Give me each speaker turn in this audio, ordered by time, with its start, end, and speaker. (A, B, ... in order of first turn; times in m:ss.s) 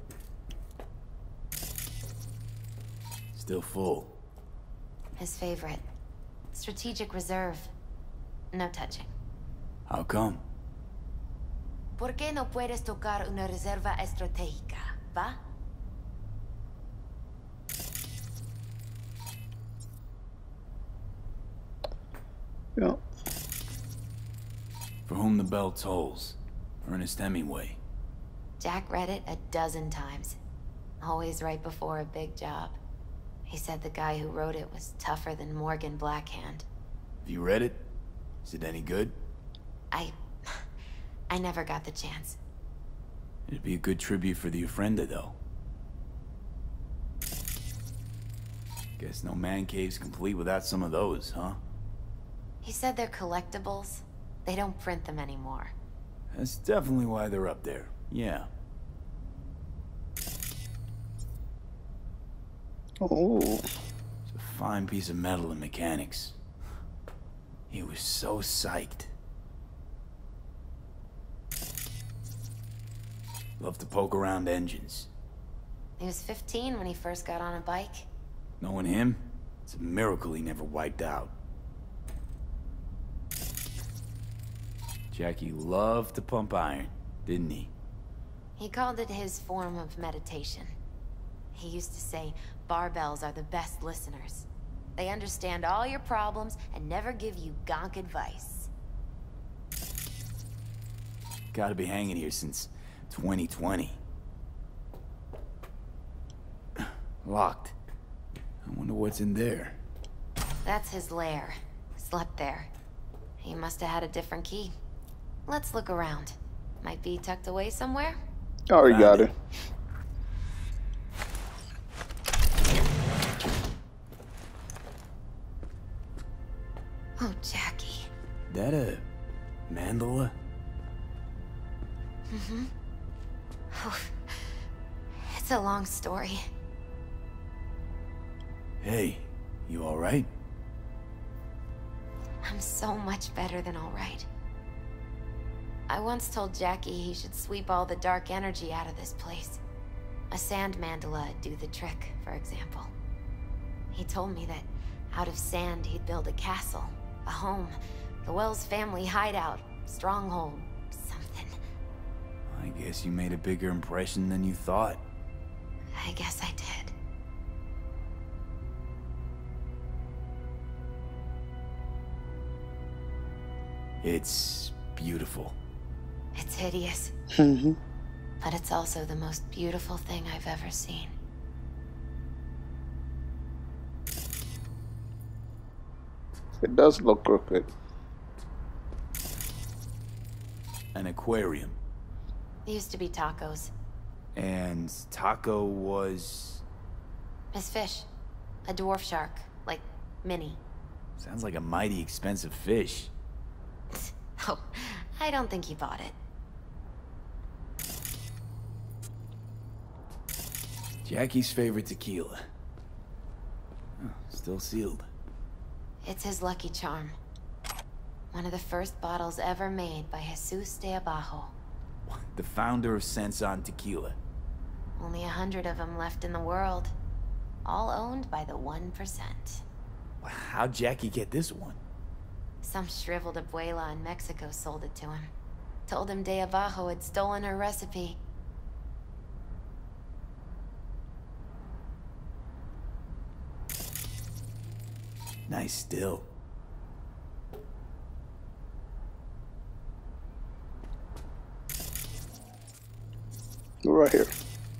0:03.3-0:04.1 A
0:05.2-0:05.8 B
0:06.5-0:07.7 B
0:08.5-0:09.1 B
0:09.9-0:10.4 A
0:12.0-0:15.4 B
0:25.1-0:27.8 A
0:28.6-0:30.4 B
0:31.0-0:32.8 B
0:33.5-0:36.6 B
0:37.2-0:37.8 A
0:38.4-0:39.1 A
0:39.9-0:40.6 B
0:41.3-0:42.4 B
0:43.5-0:45.4 A
0:49.0-0:51.6 A
0:52.6-0:55.7 B
0:56.3-0:58.5 A
1:03.0-1:03.6 C
1:04.3-1:06.4 A
1:07.7-1:09.1 A
1:13.6-1:15.1 A
1:16.0-1:18.0 B
1:18.6-1:21.3 A
1:25.1-1:27.7 A
1:28.6-1:30.7 B
1:31.5-1:38.7 B
1:41.5-1:44.0 A
1:47.2-1:47.8 A
1:48.6-1:49.8 A
1:50.6-1:52.7 B
1:53.4-1:54.7 B
1:55.5-1:58.2 B
1:58.7-1:59.3 C
1:58.8-1:59.3 A
2:07.2-2:08.1 B
2:08.5-2:09.0 A
2:09.7-2:10.3 A
2:12.3-2:12.7 B
2:13.7-2:14.5 B
2:15.2-2:16.4 B
2:18.8-2:20.3 A
2:22.4-2:24.3 B
2:25.9-2:29.6 B
2:30.3-2:32.9 B
2:33.9-2:41.5 B
2:42.5-2:45.0 A
2:45.9-2:46.9 B
2:54.0-2:55.6 A
2:56.3-2:57.1 B
2:57.4-2:57.8 C
2:58.4-3:01.1 B
3:06.6-3:07.7 C
3:10.9-3:11.8 A
3:12.6-3:13.7 B
3:14.3-3:16.6 A
3:17.5-3:18.1 B
3:18.6-3:20.6 B
3:21.2-3:23.1 A
3:23.9-3:26.1 B
3:31.0-3:32.4 A
3:34.0-3:35.1 A
3:36.0-3:37.2 B
3:38.3-3:41.5 B
3:42.1-3:44.2 A
3:45.0-3:46.9 B
3:47.6-3:49.6 B
3:50.2-3:51.8 A
3:52.6-3:55.3 B
3:55.9-3:58.2 B
4:05.5-4:06.3 A
4:13.8-4:14.3 C